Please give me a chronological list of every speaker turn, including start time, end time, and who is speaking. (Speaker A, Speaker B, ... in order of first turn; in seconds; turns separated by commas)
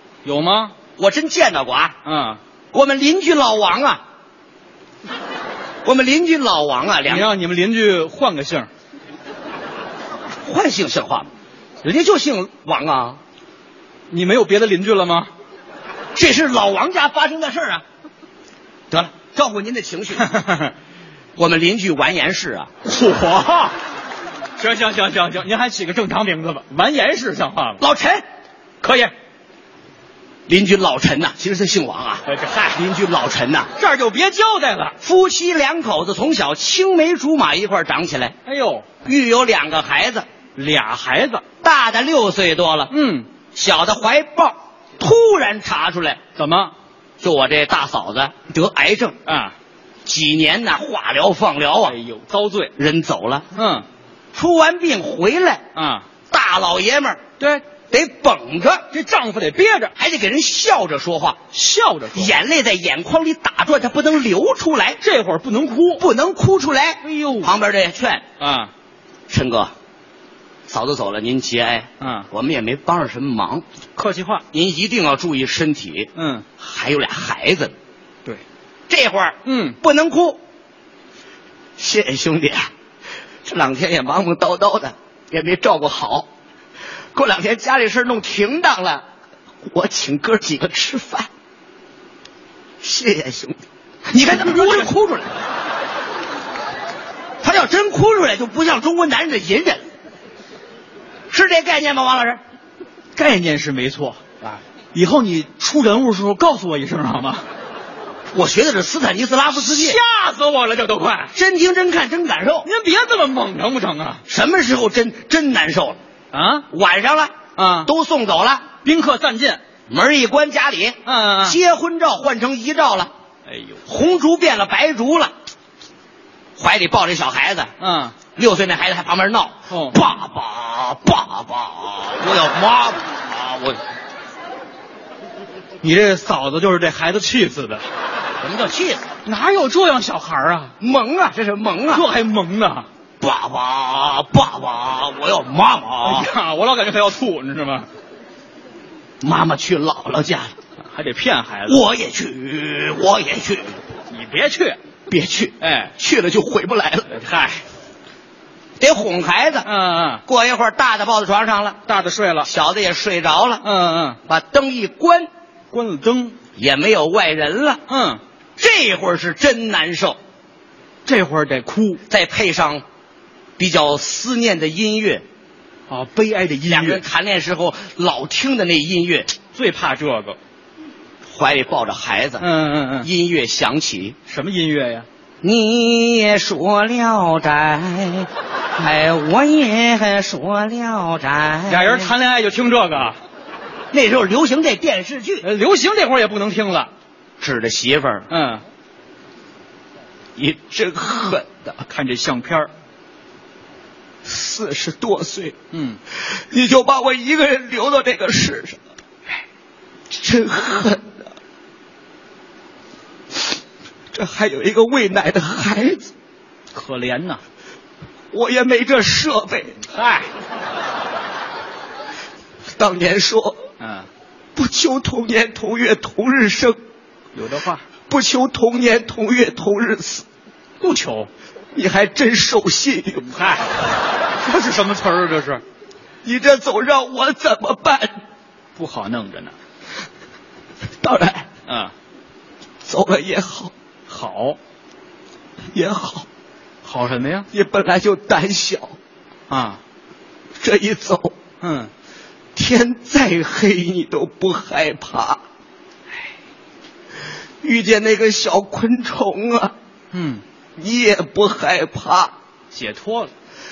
Speaker A: 0.2-0.8, Speaker B: 1.0-2.0, Speaker A: 2.0-2.4, Speaker B: 2.7-4.0, Speaker B: 5.8-7.3, Speaker A: 7.1-8.7, Speaker B: 10.4-11.3, Speaker B: 11.8-13.2, Speaker A: 14.1-15.3, Speaker B: 16.1-17.8, Speaker B: 18.9-20.3, Speaker A: 20.2-20.7, Speaker B: 21.4-22.7, Speaker A: 22.8-23.8, Speaker A: 24.6-27.8, Speaker B: 27.8-28.2, Speaker A: 28.8-29.1, Speaker B: 30.5-33.7, Speaker A: 32.3-32.8, Speaker A: 33.8-35.0, Speaker B: 35.0-38.3, Speaker A: 38.5-38.9, Speaker B: 39.0-40.3, Speaker A: 40.6-41.4, Speaker B: 41.6-42.9, Speaker A: 42.9-43.3, Speaker B: 43.5-46.2, Speaker A: 46.4-46.7, Speaker B: 47.2-49.2, Speaker A: 49.3-49.5, Speaker B: 50.1-52.0, Speaker A: 51.8-52.7, Speaker B: 52.8-53.5, Speaker A: 53.5-53.9, Speaker B: 54.4-55.6, Speaker A: 55.8-56.1, Speaker B: 56.3-57.2, Speaker A: 57.4-57.6, Speaker B: 57.9-58.9, Speaker A: 58.9-59.9, Speaker B: 60.0-61.4, Speaker A: 61.5-62.4, Speaker B: 62.1-65.0, Speaker A: 65.0-66.0, Speaker B: 66.0-68.2, Speaker A: 67.0-67.5, Speaker A: 68.4-68.7, Speaker B: 69.3-69.7, Speaker B: 70.7-73.6, Speaker A: 72.0-72.3, Speaker A: 74.0-74.4, Speaker B: 74.5-77.7, Speaker A: 76.2-76.5, Speaker B: 78.9-80.4, Speaker A: 79.5-79.8, Speaker B: 81.8-82.7, Speaker B: 83.5-86.3, Speaker B: 87.1-89.0, Speaker B: 89.7-91.3, Speaker B: 92.8-95.3, Speaker A: 94.2-94.9, Speaker B: 97.4-99.9, Speaker B: 101.3-102.4, Speaker A: 103.2-107.5, Speaker B: 108.3-110.0, Speaker A: 109.5-111.3, Speaker B: 111.3-112.7, Speaker A: 112.7-114.2, Speaker B: 114.3-116.0, Speaker A: 116.3-116.7, Speaker B: 116.7-118.7, Speaker A: 117.6-117.9, Speaker A: 118.8-119.6, Speaker B: 119.9-123.1, Speaker A: 121.0-121.6, Speaker A: 123.5-123.8, Speaker B: 123.9-125.3, Speaker B: 126.6-127.7, Speaker A: 127.8-128.2, Speaker B: 128.3-133.8, Speaker A: 129.7-130.0, Speaker A: 135.8-137.9, Speaker B: 138.4-139.1, Speaker A: 139.2-140.7, Speaker B: 140.8-142.1, Speaker A: 141.9-142.9, Speaker B: 143.2-146.3, Speaker A: 146.0-147.9, Speaker B: 149.2-150.5, Speaker A: 150.8-151.8, Speaker B: 151.7-153.8, Speaker A: 154.1-154.8, Speaker B: 155.1-157.1, Speaker A: 155.6-155.9, Speaker A: 157.1-157.6, Speaker B: 158.8-159.7, Speaker A: 159.6-160.2, Speaker B: 160.3-161.8, Speaker A: 161.9-162.5, Speaker B: 162.4-163.6, Speaker A: 163.6-164.2, Speaker B: 164.3-165.3, Speaker A: 165.7-166.4, Speaker B: 166.6-167.8, Speaker A: 167.9-168.2, Speaker B: 168.6-170.2, Speaker A: 171.1-172.0, Speaker B: 172.1-172.8, Speaker B: 173.6-175.2, Speaker A: 175.9-177.0, Speaker B: 176.7-179.3, Speaker A: 179.5-180.4, Speaker B: 181.3-182.4, Speaker A: 182.4-183.1, Speaker B: 183.0-184.2, Speaker A: 184.3-185.1, Speaker B: 185.4-192.1, Speaker A: 191.7-193.2, Speaker B: 193.9-195.4, Speaker A: 195.4-196.9, Speaker B: 197.4-198.3, Speaker A: 198.3-198.6, Speaker B: 200.4-201.8, Speaker A: 201.8-202.7, Speaker B: 204.2-205.6, Speaker A: 205.7-206.0, Speaker B: 206.1-208.8, Speaker B: 210.1-211.1, Speaker B: 214.1-216.1, Speaker A: 216.7-217.4, Speaker B: 218.3-219.8, Speaker A: 219.8-220.3, Speaker B: 222.8-223.6, Speaker A: 223.8-224.1, Speaker B: 224.6-226.8, Speaker A: 227.3-227.8, Speaker B: 228.1-230.2, Speaker A: 230.8-231.3, Speaker B: 231.8-233.3, Speaker A: 233.2-233.9, Speaker A: 234.4-235.6, Speaker B: 236.2-238.2, Speaker A: 238.8-239.6, Speaker B: 241.0-241.5, Speaker A: 241.7-241.9, Speaker B: 242.8-243.7, Speaker A: 244.1-244.6, Speaker B: 245.7-246.2, Speaker A: 246.8-247.5, Speaker B: 247.5-249.0, Speaker A: 249.5-249.8, Speaker B: 250.6-251.3, Speaker A: 251.6-251.9, Speaker B: 252.6-255.4, Speaker B: 257.6-259.7, Speaker A: 260.1-260.4, Speaker B: 260.8-262.3, Speaker A: 262.7-263.3